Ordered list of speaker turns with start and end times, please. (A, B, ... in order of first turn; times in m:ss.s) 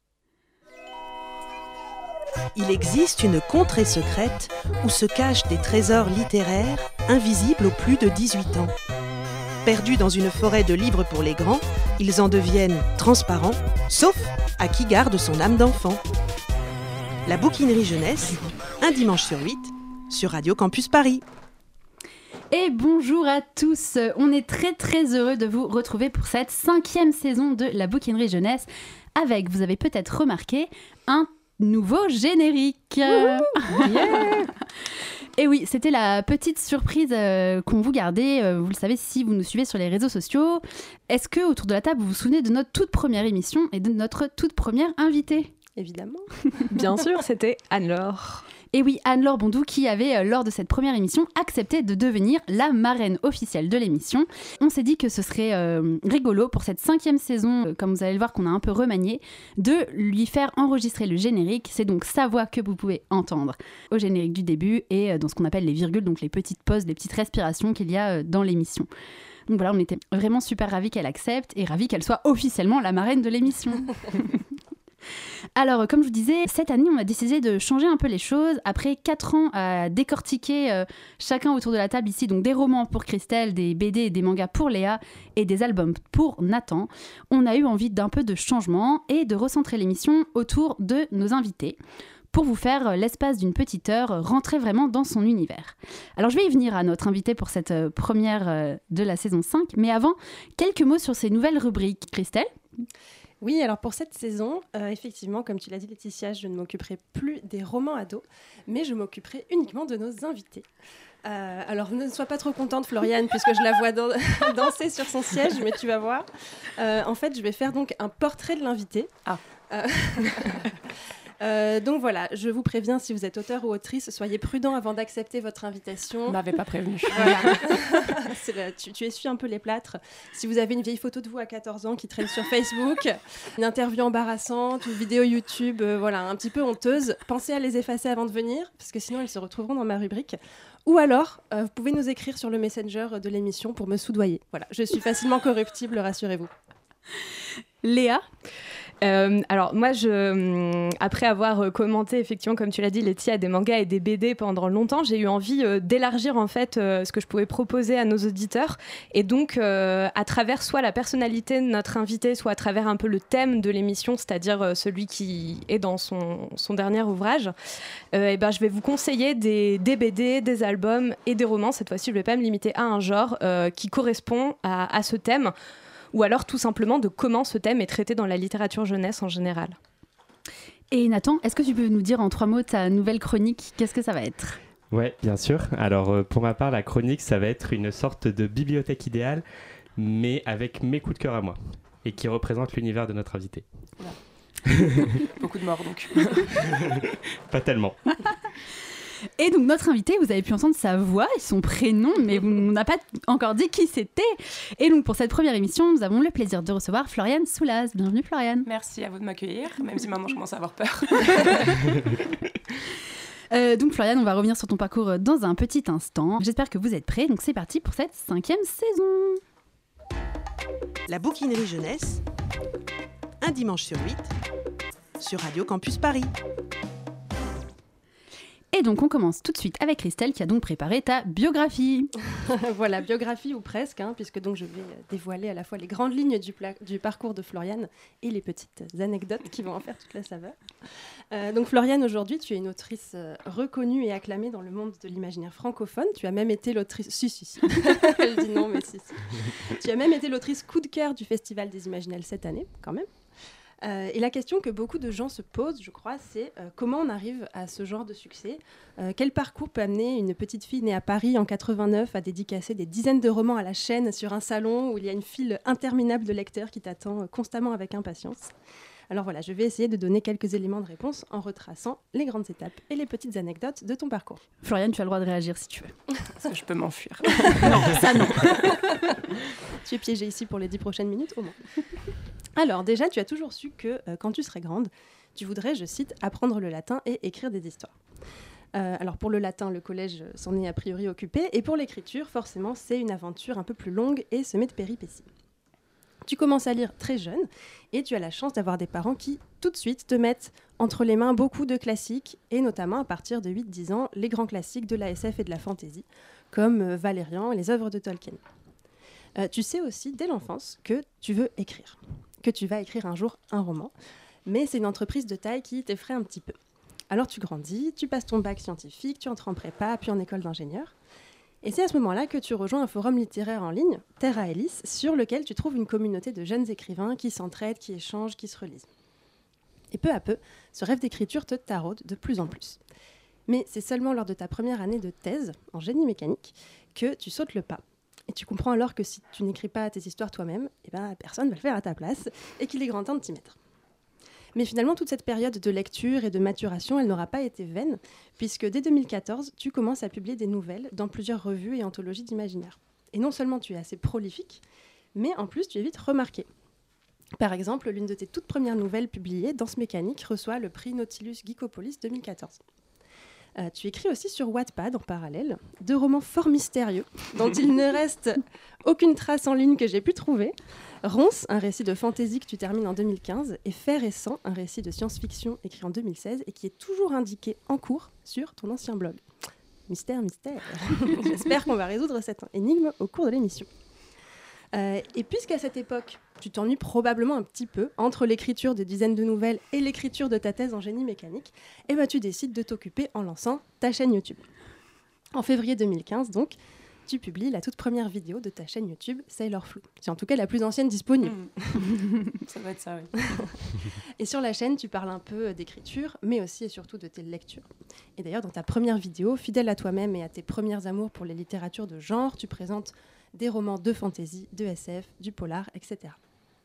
0:02.6-0:08.7 A
0:09.6-0:16.0 A
0:17.3-0:21.2 A
0:22.5-0:34.4 B
0:33.7-0:34.5 C
0:35.4-0:45.5 B
0:45.8-0:46.7 D
0:46.7-0:48.4 C
0:48.7-1:08.9 B
1:09.5-1:14.4 B
1:15.6-1:31.8 B
1:32.3-1:42.9 B
1:43.4-1:50.7 D
1:51.2-1:59.2 D
1:59.7-2:06.4 D
2:06.3-2:07.8 E
2:07.1-2:26.5 D
2:27.8-2:28.3 B
2:29.0-2:47.6 C
2:48.1-2:55.5 C
2:56.1-2:59.8 C
3:00.9-3:04.6 B
3:04.9-3:09.4 F
3:10.0-3:13.6 F
3:14.7-3:15.3 F
3:15.3-3:16.7 E
3:16.6-3:18.3 F
3:19.4-3:28.7 B
3:28.7-3:32.0 E
3:33.5-3:39.4 B
3:41.1-3:42.2 A
3:43.4-3:44.3 A
3:45.2-3:46.3 A
3:48.7-3:52.1 B
3:52.3-4:13.1 D
4:13.8-4:28.5 D
4:29.1-4:34.4 D
4:34.6-4:35.9 B
4:36.4-4:38.5 E
4:37.6-4:39.0 B
4:39.8-4:41.6 D
4:42.6-4:48.0 D
4:48.8-4:55.3 D
4:56.2-5:08.4 D
5:09.4-5:13.9 D
5:14.5-5:16.6 D
5:17.1-5:20.9 D
5:21.6-5:28.9 D
5:29.9-5:32.8 D
5:33.5-5:43.6 D
5:44.6-5:54.6 D
5:55.2-5:56.5 D
5:57.4-6:02.6 D
6:03.6-6:19.2 D
6:19.9-6:23.7 D
6:24.7-6:34.4 D
6:35.3-6:41.9 D
6:41.2-6:43.3 E
6:43.3-6:43.6 D
6:44.2-6:56.2 D